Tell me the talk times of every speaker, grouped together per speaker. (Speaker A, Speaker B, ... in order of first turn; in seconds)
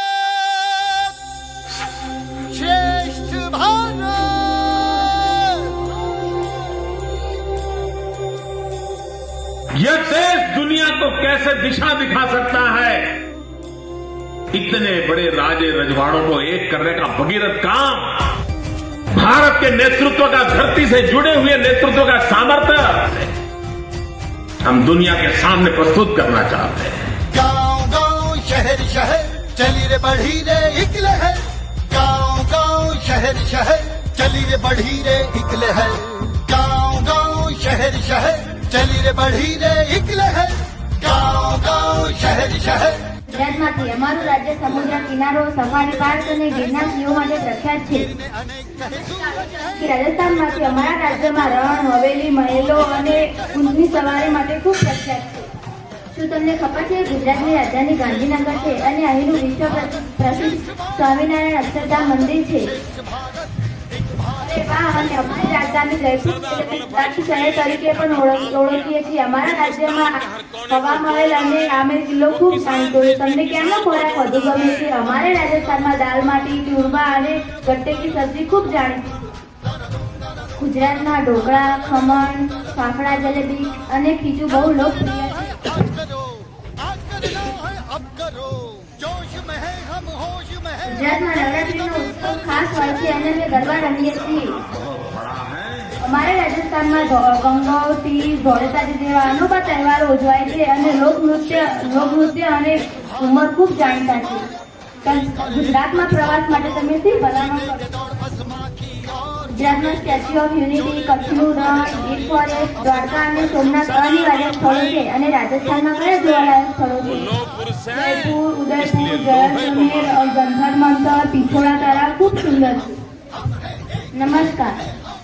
Speaker A: 2.8-4.0, 27.4-42.9, 89.5-90.0
Speaker B: 9.7-13.2, 14.5-18.3, 19.1-23.3, 24.6-27.2, 94.6-95.9, 119.0-120.0
Speaker C: 43.3-48.1, 49.4-55.5, 56.1-62.7, 64.3-79.3, 80.5-85.7, 90.8-94.6, 96.0-104.4, 105.0-107.9, 109.5-117.3, 117.9-123.0, 124.1-124.8